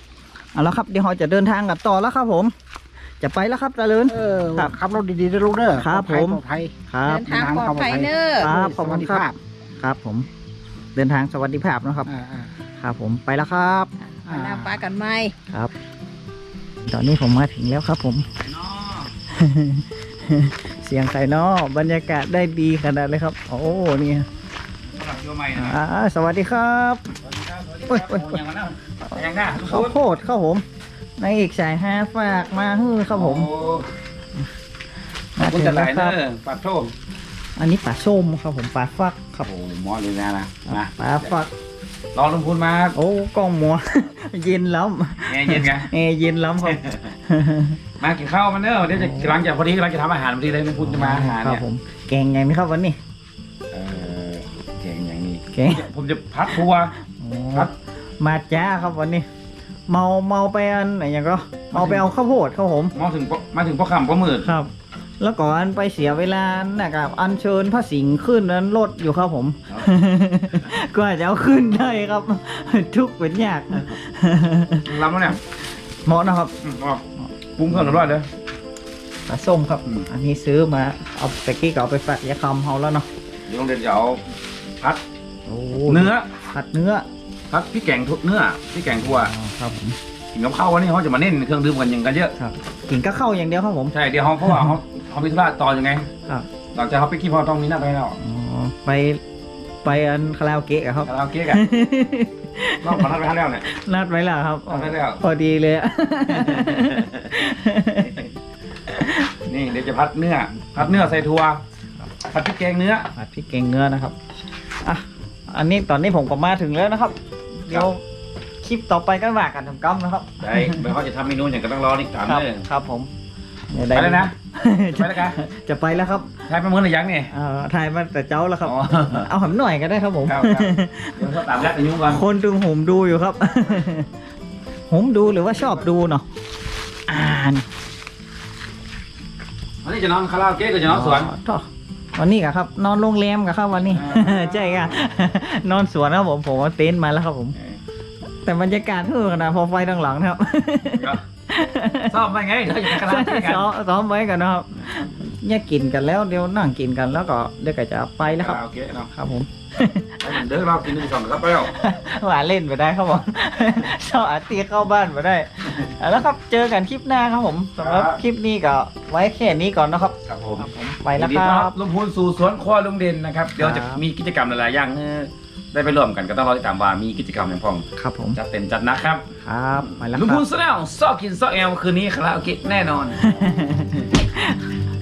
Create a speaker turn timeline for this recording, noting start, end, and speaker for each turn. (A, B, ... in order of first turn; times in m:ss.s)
0:00.5-0:02.5 A
0:03.2-0:04.7 A
0:04.1-0:09.4 B
0:05.7-0:07.3 A
0:07.0-0:08.5 C
0:08.4-0:10.3 A
0:10.9-0:12.1 A
0:12.0-0:12.5 B
0:12.8-0:13.9 A
0:14.0-0:15.3 C
0:14.2-0:14.7 B
0:16.8-0:18.2 A
0:18.4-0:19.1 D
0:19.3-0:24.3 A
0:24.9-0:25.8 D
0:25.5-0:27.0 A
0:27.2-0:30.0 D
0:27.9-0:28.4 A
0:29.0-0:30.6 A
0:31.2-0:33.5 A
0:33.1-0:33.9 D
0:35.4-0:36.2 A
0:35.4-0:36.9 D
0:37.6-0:39.5 A
0:39.4-0:41.3 D
0:40.7-0:41.5 A
0:42.1-0:43.0 D
0:42.9-0:47.8 A
0:45.2-0:45.9 D
0:46.6-0:47.1 D
0:48.0-0:51.6 D
0:48.9-0:49.4 A
0:50.8-0:53.0 A
0:53.7-0:57.0 D
0:55.5-0:55.8 A
0:57.0-0:59.3 A
0:59.9-1:03.0 A
1:01.7-1:02.1 D
1:02.9-1:04.5 D
1:04.4-1:15.0 A
1:14.8-1:15.4 D
1:16.0-1:16.5 A
1:16.6-1:17.0 D
1:17.2-1:18.1 A
1:17.6-1:18.3 D
1:19.3-1:23.0 A
1:23.5-1:24.2 D
1:25.5-1:27.0 A
1:25.9-1:26.3 D
1:27.5-1:29.3 D
1:29.0-1:30.0 A
1:30.3-1:32.3 D
1:32.4-1:34.8 A
1:33.9-1:36.1 D
1:36.7-1:38.2 D
1:38.2-1:39.2 A
1:39.8-1:48.2 A
1:41.0-1:41.6 D
1:42.8-1:43.7 D
1:44.7-1:45.2 D
1:46.5-1:47.0 D
1:48.9-1:49.2 A
1:49.4-1:51.6 D
1:52.3-1:53.1 D
1:53.2-1:54.2 A
1:54.8-1:58.0 A
1:58.6-2:00.8 A
2:00.4-2:02.6 D
2:02.2-2:03.1 A
2:03.7-2:06.3 A
2:03.9-2:04.3 D
2:04.9-2:05.4 D
2:06.4-2:07.3 D
2:07.3-2:11.4 A
2:08.6-2:09.3 D
2:10.2-2:12.2 D
2:12.0-2:14.1 A
2:14.9-2:16.2 A
2:15.4-2:15.8 D
2:17.1-2:17.6 A
2:19.8-2:21.3 D
2:20.9-2:27.5 A
2:23.8-2:25.1 D
2:28.4-2:32.2 A
2:30.9-2:31.2 D
2:32.1-2:33.7 D
2:32.9-2:38.6 A
2:38.3-2:39.1 D
2:39.1-2:40.4 A
2:40.2-2:41.7 D
2:41.7-2:51.7 A
2:47.8-2:48.2 D
2:50.3-2:59.2 D
2:53.6-2:54.0 A
2:58.0-2:58.4 A
2:59.4-3:00.4 A
2:59.8-3:03.3 D
3:03.2-3:04.6 A